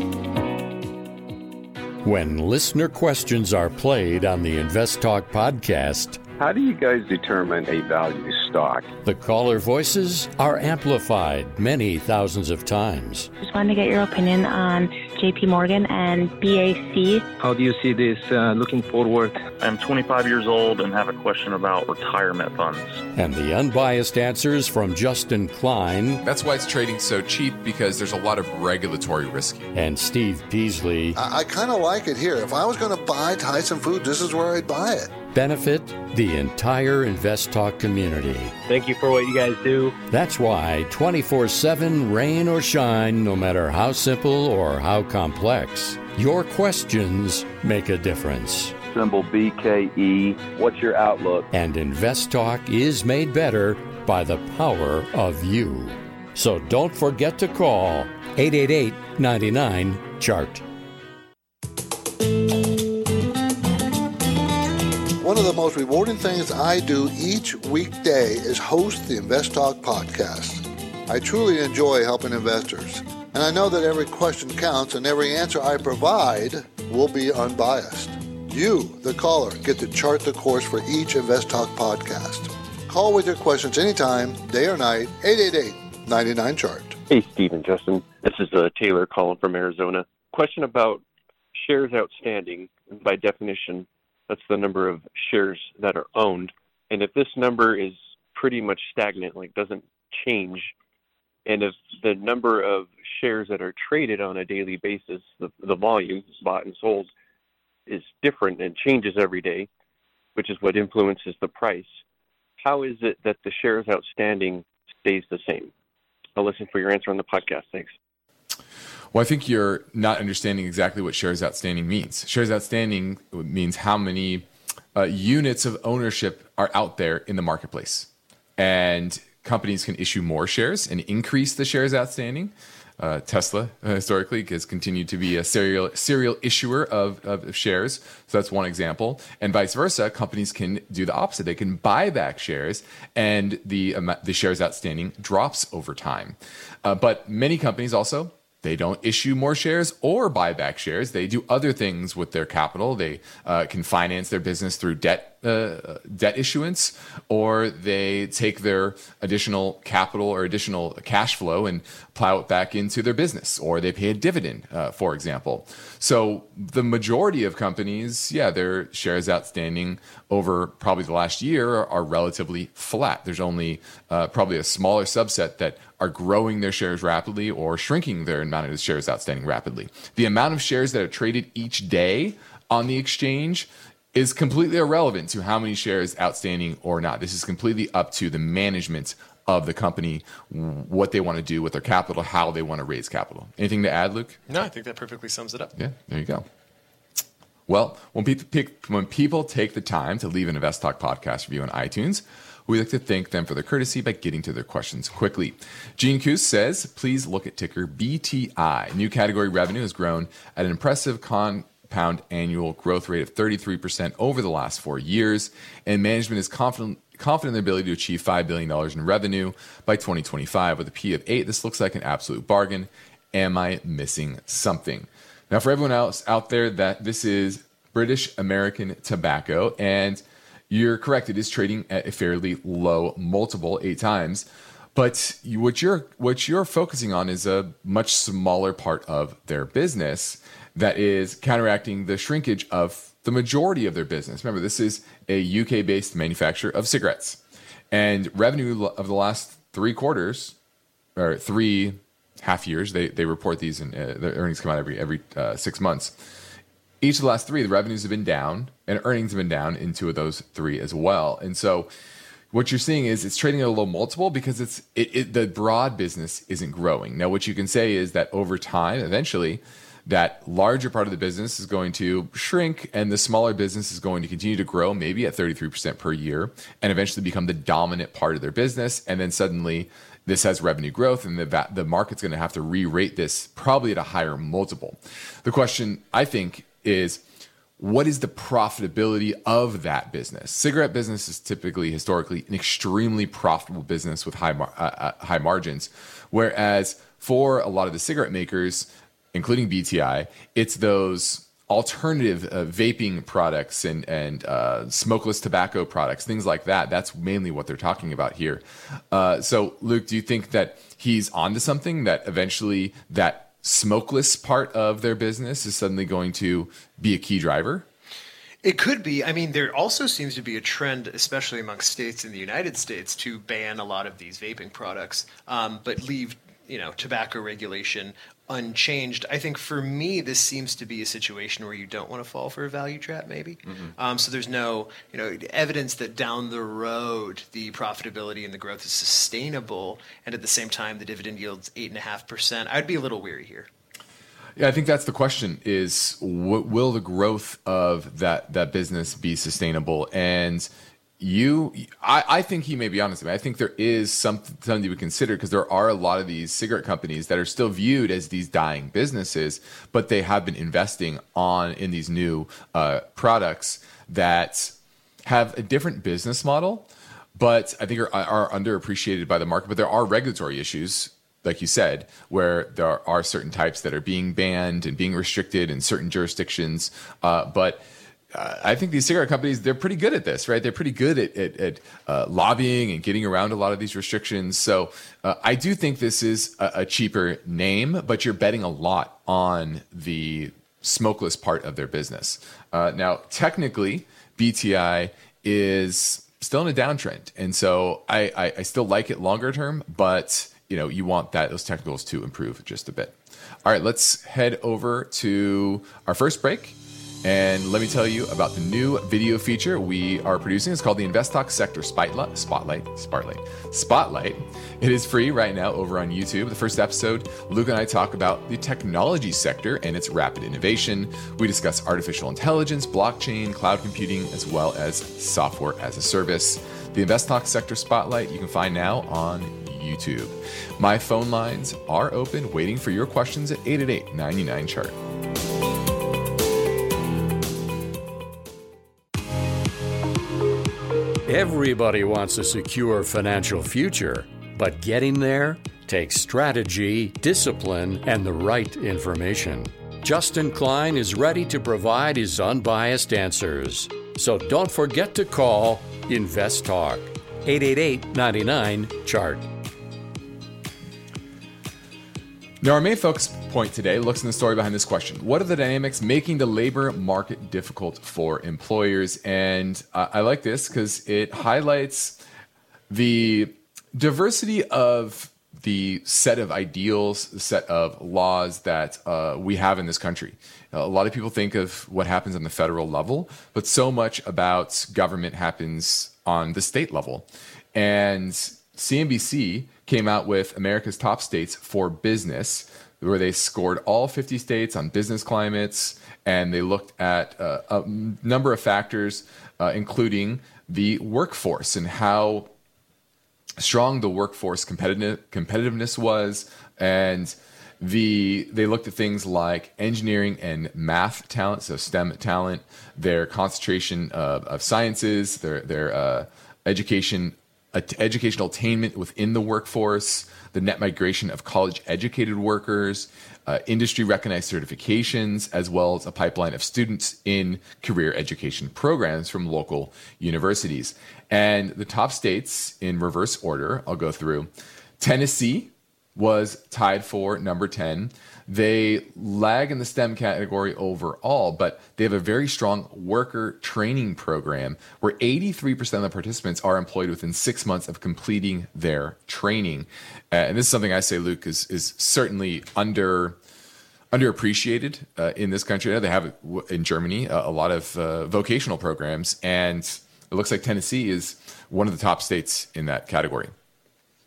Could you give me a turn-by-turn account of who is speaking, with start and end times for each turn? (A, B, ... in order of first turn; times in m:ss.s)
0:02.0-0:06.2 A
0:06.4-0:08.8 B
0:09.0-0:13.3 A
0:13.4-0:17.2 C
0:17.4-0:19.5 D
0:19.6-0:23.0 E
0:23.2-0:26.2 A
0:26.2-0:29.7 F
0:29.8-0:31.2 A
0:31.2-0:35.1 G
0:35.3-0:38.6 A
0:38.7-0:39.9 D
0:40.1-0:48.8 A
0:48.9-0:51.5 B
0:51.5-1:00.6 A
1:05.2-1:27.0 G
1:27.1-1:31.0 H
1:31.6-1:40.7 H
1:41.5-1:47.1 H
1:47.9-1:49.7 H
1:50.4-1:52.0 H
1:52.6-1:55.7 H
1:56.4-1:57.9 H
1:59.1-3:14.4 F
3:14.5-3:15.7 I
3:15.8-3:16.5 F
3:17.7-4:07.4 F
4:07.9-4:10.6 F
4:11.2-4:16.2 F
4:17.0-4:21.9 F
4:22.5-4:47.2 F
4:47.8-5:17.9 F
5:18.6-5:43.7 I
5:44.6-7:15.0 F
7:21.2-7:39.5 A
7:42.6-7:52.2 F
7:52.9-8:22.5 F
8:23.6-9:13.4 F
9:14.1-9:23.5 F